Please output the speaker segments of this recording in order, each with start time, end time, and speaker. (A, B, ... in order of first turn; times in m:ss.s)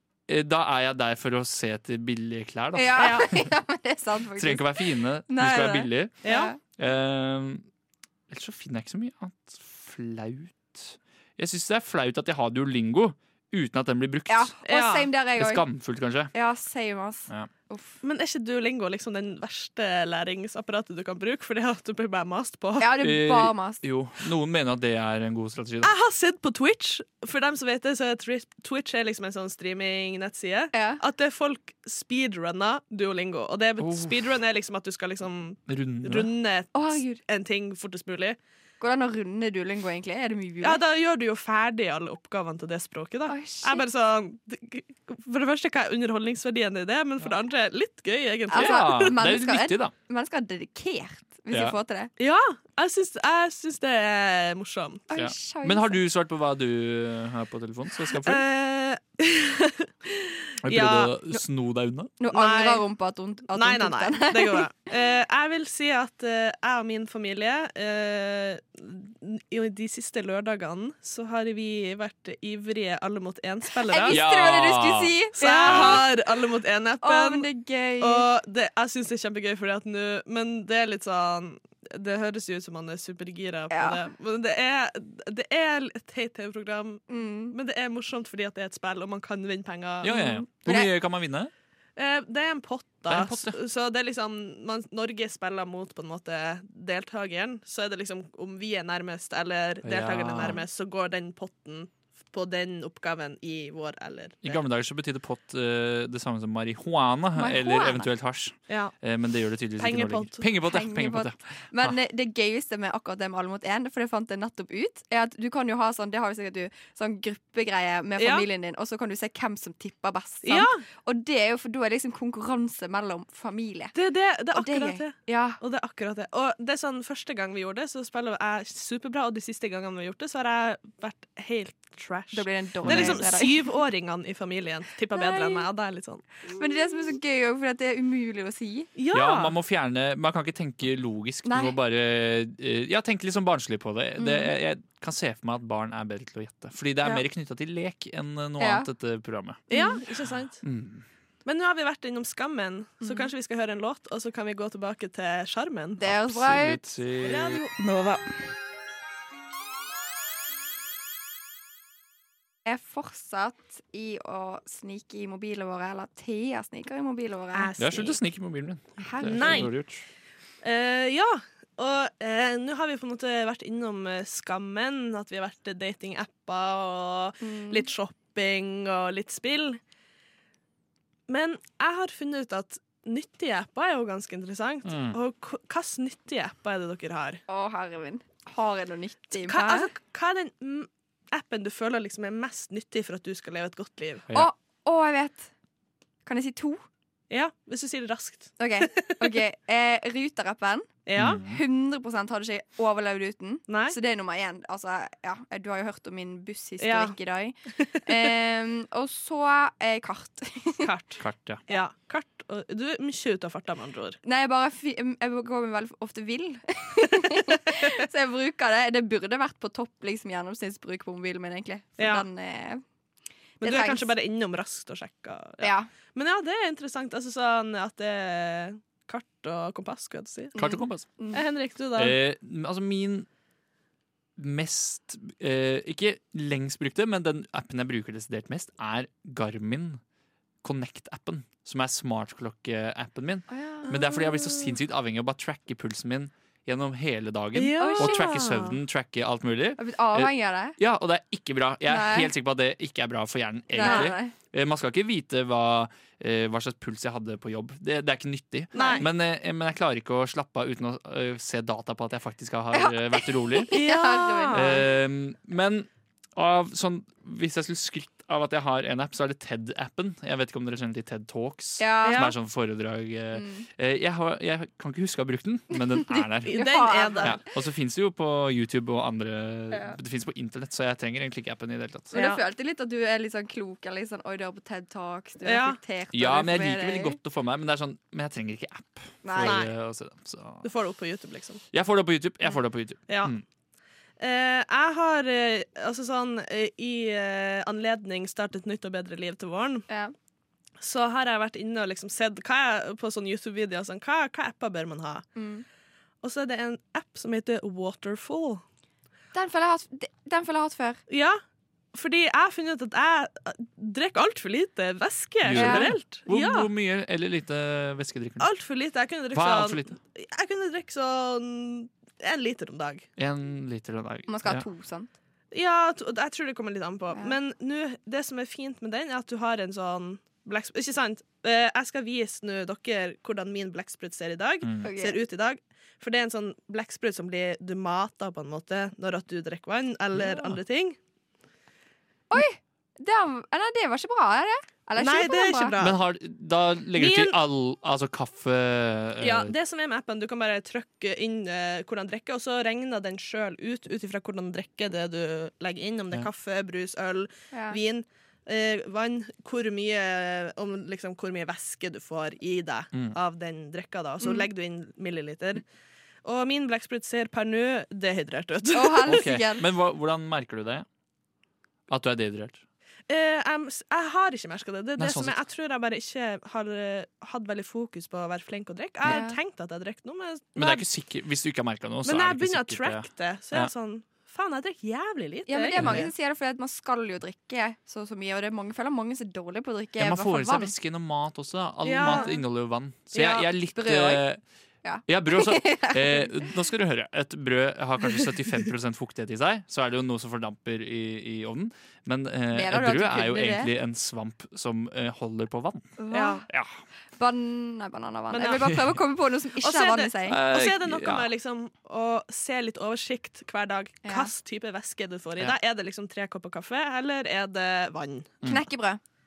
0:00.3-0:03.4 A
0:02.7-0:04.8 B
0:03.0-0:03.3 C
0:04.4-0:07.6 A
0:05.3-0:06.6 B
0:06.2-0:06.5 C
0:08.3-0:14.5 A
0:14.3-0:15.6 B
0:14.6-0:15.1 C
0:15.4-0:16.3 A
0:16.3-0:17.9 B
0:18.0-0:22.9 C
0:22.8-0:23.8 B
0:23.0-0:25.9 A
0:25.8-0:38.4 C
0:30.7-0:31.0 B
0:33.8-0:34.3 A
0:35.7-0:36.3 A
0:36.7-0:37.2 B
0:38.8-0:40.8 B
0:40.6-0:49.1 C
0:43.3-0:43.8 B
0:48.5-0:52.1 B
0:48.5-0:49.9 A
0:51.5-0:51.8 A
0:52.2-0:55.0 C
0:55.1-0:56.0 B
0:55.1-0:58.4 A
0:58.1-1:01.1 C
1:00.6-1:02.1 A
1:02.2-1:04.7 B
1:02.3-1:02.8 C
1:03.5-1:14.2 C
1:13.9-1:16.1 B
1:14.1-1:16.0 A
1:15.4-1:17.5 C
1:17.0-1:18.2 B
1:18.0-1:30.1 C
1:23.7-1:24.0 B
1:27.1-1:27.5 B
1:30.0-1:31.5 A
1:30.0-1:30.9 B
1:32.0-1:44.6 C
1:33.1-1:33.6 A
1:39.8-1:40.6 A
1:44.4-1:51.9 A
1:47.4-1:48.1 B
1:48.7-1:48.9 C
1:49.8-1:50.4 C
1:50.6-2:03.9 B
1:58.2-1:58.4 C
2:00.4-2:00.8 C
2:03.9-2:16.2 C
2:04.5-2:05.6 B
2:12.3-2:13.7 B
2:12.8-2:13.3 A
2:15.1-2:15.6 B
2:16.5-2:18.9 B
2:19.0-2:19.5 C
2:19.1-2:29.6 A
2:21.4-2:21.7 B
2:24.2-2:24.5 B
2:28.6-2:28.9 B
2:29.7-2:30.0 B
2:29.7-2:30.6 C
2:30.6-2:31.0 A
2:31.4-2:36.0 C
2:33.0-2:33.3 B
2:36.0-2:36.8 B
2:36.0-2:37.6 A
2:37.2-2:37.7 C
2:37.8-2:38.2 B
2:42.6-2:47.7 B
2:47.5-2:48.2 C
2:47.8-2:50.0 A
2:49.0-2:49.7 B
2:49.2-2:49.7 C
2:50.6-2:59.8 C
2:57.4-2:57.9 B
3:01.3-3:07.4 C
3:04.8-3:05.2 A
3:07.5-3:09.9 B
3:09.4-3:14.2 C
3:14.3-3:15.5 B
3:16.2-3:16.8 B
3:17.3-3:19.3 C
3:18.6-3:30.9 B
3:21.0-3:21.4 C
3:21.2-3:21.6 A
3:23.7-3:24.0 C
3:26.8-3:27.1 C
3:27.8-3:28.3 C
3:30.8-3:34.2 C
3:31.2-3:31.6 A
3:34.2-3:42.8 B
3:42.0-3:42.2 C
3:43.6-3:44.1 B
3:43.6-3:50.5 C
3:45.6-3:45.9 B
3:50.6-3:51.4 B
3:50.6-3:51.1 A
3:51.3-3:52.2 C
3:52.0-3:53.3 A
3:54.4-4:00.0 A
4:00.6-4:23.8 A
4:03.5-4:03.9 B
4:03.9-4:04.7 C
4:07.5-4:08.8 C
4:07.8-4:08.3 B
4:09.8-4:10.8 B
4:11.9-4:12.3 B
4:13.7-4:14.3 B
4:13.8-4:14.1 C
4:18.7-4:19.1 C
4:18.7-4:19.0 B
4:22.7-4:24.8 B
4:23.7-4:24.8 C
4:24.5-4:36.5 A
4:31.8-4:32.3 B
4:32.0-4:32.3 C
4:33.3-4:33.7 B
4:36.4-4:37.4 C
4:36.5-4:37.4 B
4:37.2-4:42.1 A
4:42.1-4:47.2 B
4:42.1-4:42.4 C
4:45.4-4:45.8 C
4:46.1-4:50.7 A
4:49.2-4:49.6 B
4:49.4-4:49.7 C
4:50.6-4:51.6 C
4:51.7-4:53.4 A
4:53.1-4:53.3 C
4:54.2-4:59.9 C
4:59.9-5:00.1 B
5:00.8-5:05.2 C
5:05.4-5:05.6 B
5:06.2-5:08.6 C
5:09.3-5:11.0 B
5:11.1-5:11.4 C
5:11.9-5:16.7 C
5:15.4-5:18.5 A
5:15.5-5:15.9 B
5:18.4-5:23.1 C
5:19.3-5:20.0 A
5:23.2-5:24.6 A
5:24.3-5:25.1 B
5:25.5-5:41.0 C
5:34.6-5:34.9 A
5:34.8-5:35.2 B
5:40.1-5:40.6 A
5:42.3-5:45.7 B
5:45.0-5:46.0 C
5:45.8-5:49.5 A
5:47.0-5:47.4 C
5:49.2-6:05.6 C
5:57.5-5:57.8 B
6:04.2-6:04.5 B
6:06.2-6:09.2 C
6:08.7-6:09.6 B
6:09.1-6:10.8 A
6:11.9-6:12.6 A
6:13.1-6:20.8 C
6:15.0-6:15.4 A
6:19.0-6:19.4 B
6:20.6-6:23.7 A
6:22.0-6:26.1 C
6:25.5-6:30.7 B
6:25.7-6:26.1 A
6:30.0-6:34.4 A
6:31.8-6:32.4 C
6:32.0-6:32.4 B
6:33.1-6:33.5 C
6:33.7-6:34.2 B
6:34.8-6:36.4 B
6:35.1-6:46.0 A
6:42.5-6:43.7 B
6:46.0-6:46.4 B
6:46.1-6:46.4 C
6:47.2-6:50.4 B
6:48.3-6:48.7 C
6:48.6-6:49.0 A
6:49.6-6:58.3 C
6:50.3-6:51.3 A
6:54.0-6:54.3 B
6:58.4-6:59.0 B